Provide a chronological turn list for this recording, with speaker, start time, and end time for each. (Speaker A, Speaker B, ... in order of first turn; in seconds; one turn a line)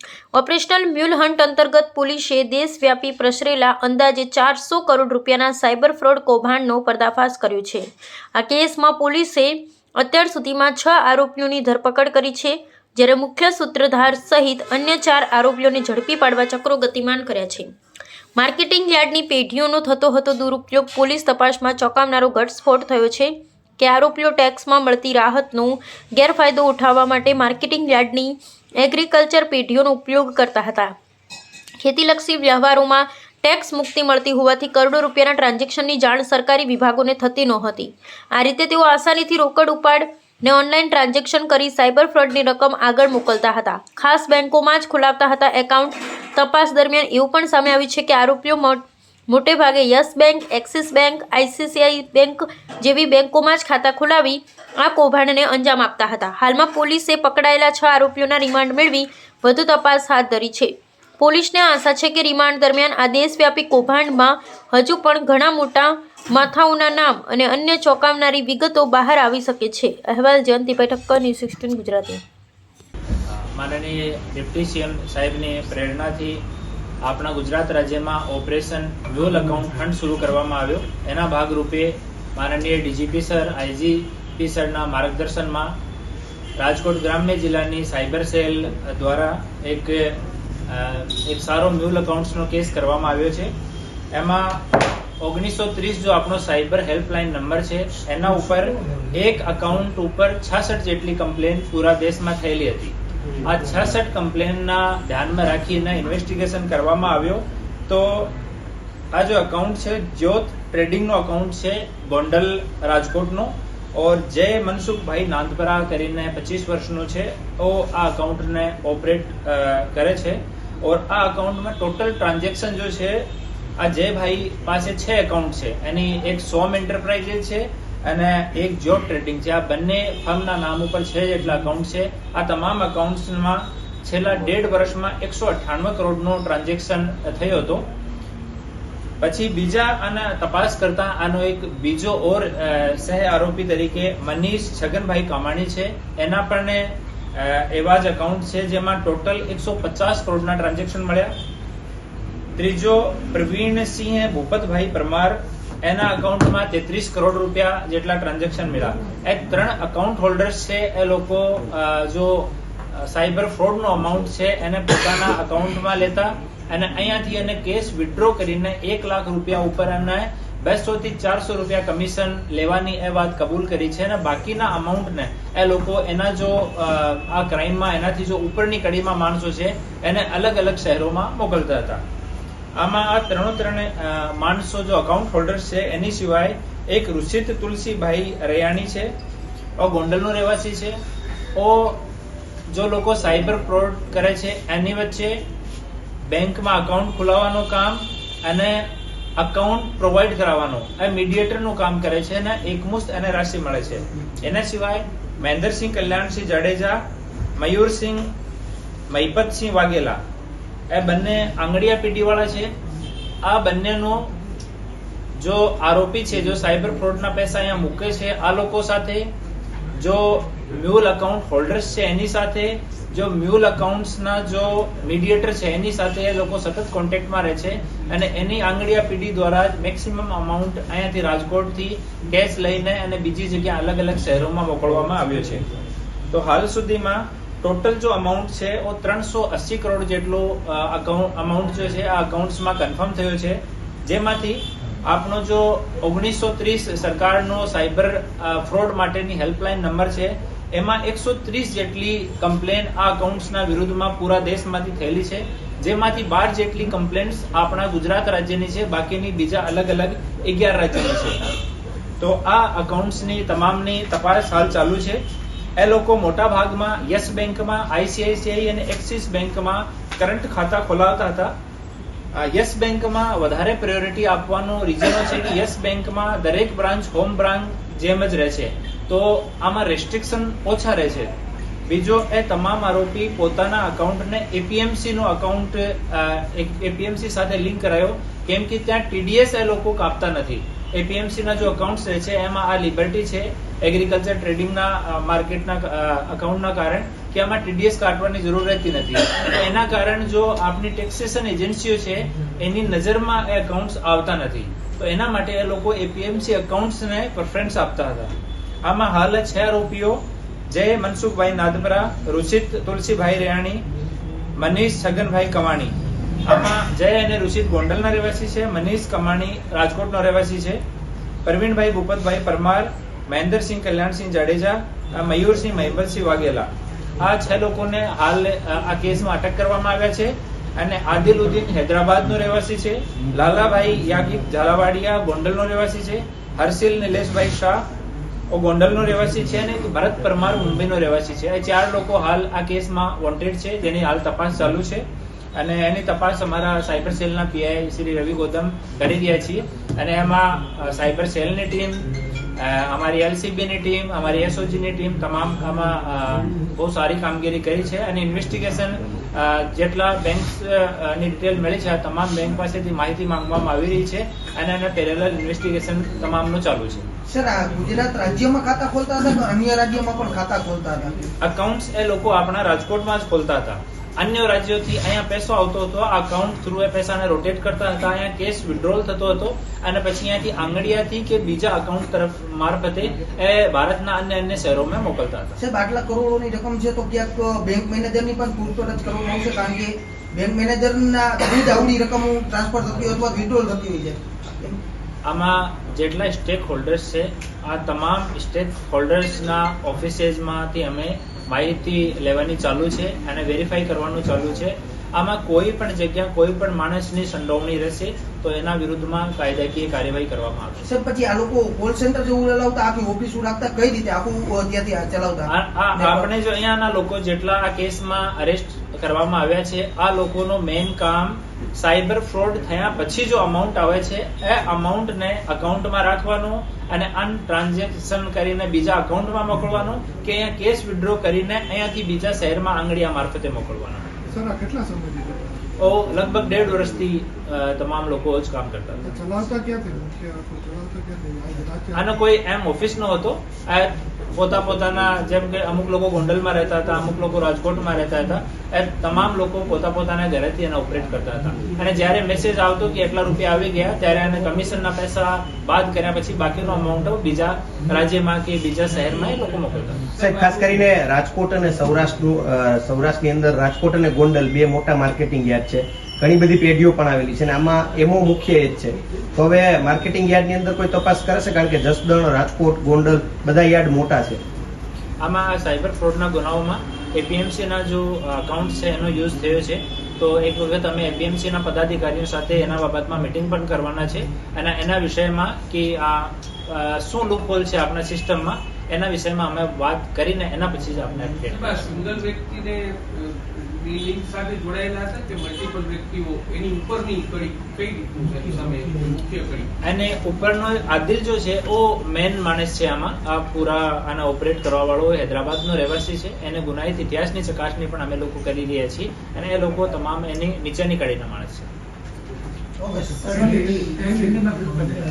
Speaker A: 0.3-17.7
Speaker A: 18.4-30.9
Speaker A: 31.8-72.2
Speaker B: 73.3-76.4
Speaker B: 77.0-85.8
Speaker B: 86.6-93.5
Speaker B: 94.1-94.6
Speaker B: 95.2-108.3
Speaker B: 109.1-123.3
Speaker B: 123.8-137.9
Speaker B: 139.2-151.3
Speaker B: 152.6-182.0
Speaker B: 182.8-189.1
Speaker B: 189.8-191.0
Speaker B: 191.6-192.0
Speaker B: 192.7-195.4
Speaker B: 196.3-198.9
Speaker B: 199.4-207.0
Speaker B: 207.6-208.3
Speaker B: 209.1-210.2
Speaker B: 210.9-212.7
Speaker B: 213.4-214.3
Speaker B: 215.4-219.3
Speaker B: 220.0-235.7
Speaker B: 236.3-261.5
Speaker B: 262.2-265.2
Speaker B: 265.8-271.5
Speaker B: 272.4-281.3
Speaker B: 281.9-308.3
Speaker B: 308.8-313.9
Speaker B: 314.6-320.8
Speaker B: 321.4-337.8
Speaker B: 338.5-345.1
Speaker B: 345.6-367.1
Speaker C: 367.3-371.3
Speaker B: 371.4-385.6
Speaker C: 385.6-394.8
Speaker B: 395.2-410.8
Speaker C: 410.8-416.3
Speaker B: 415.5-434.1
Speaker D: 434.3-435.7
Speaker B: 435.8-439.1
Speaker D: 439.1-442.1
Speaker B: 441.9-460.1
Speaker E: 460.1-460.8
Speaker F: 460.2-474.4
Speaker B: 475.2-492.0
Speaker E: 491.5-499.7
Speaker B: 499.8-511.7
Speaker C: 512.8-514.0
Speaker D: 513.4-514.4